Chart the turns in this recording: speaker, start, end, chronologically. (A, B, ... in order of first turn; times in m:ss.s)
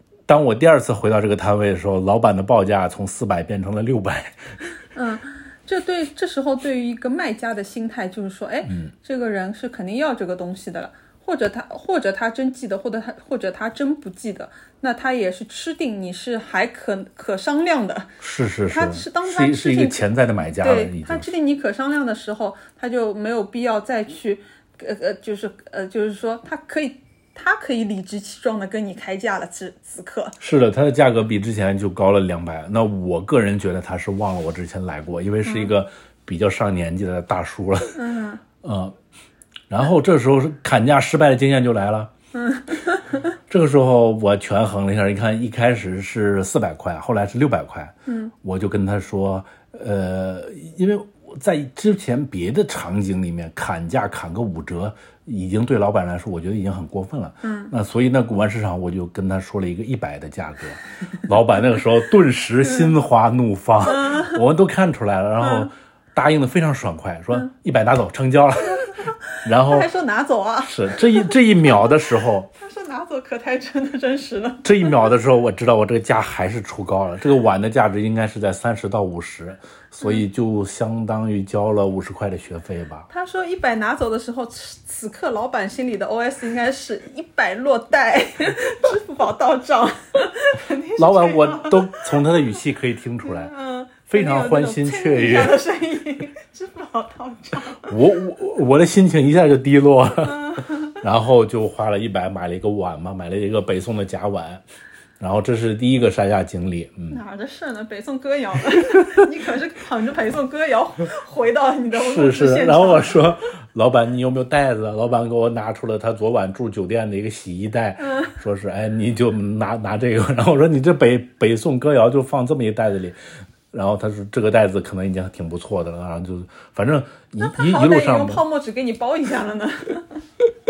0:00.3-0:04.7 A
0:05.0-0:18.1 B
0:18.2-0:21.3 A
0:18.7-0:20.0 B
0:20.6-0:30.4 B
0:30.4-0:38.0 A
0:35.4-0:35.7 B
0:38.0-0:38.4 B
0:38.6-0:39.0 A
0:39.7-0:42.1 A
0:42.3-0:43.2 B
0:43.5-1:09.9 A
0:48.1-0:48.3 B
0:57.4-0:57.7 B
1:03.9-1:04.4 B
1:05.4-1:05.7 B
1:09.0-1:12.0 B
1:10.6-1:12.5 A
1:12.5-1:15.0 B
1:14.6-1:23.1 A
1:23.1-1:32.4 B
1:31.0-1:33.5 A
1:33.2-1:37.9 B
1:34.1-1:35.6 A
1:37.8-1:44.6 A
1:40.2-1:41.0 B
1:45.2-1:47.2 A
1:47.1-1:53.2 B
1:51.9-2:03.2 A
1:58.1-1:58.3 B
2:03.7-2:08.4 A
2:07.4-2:10.2 B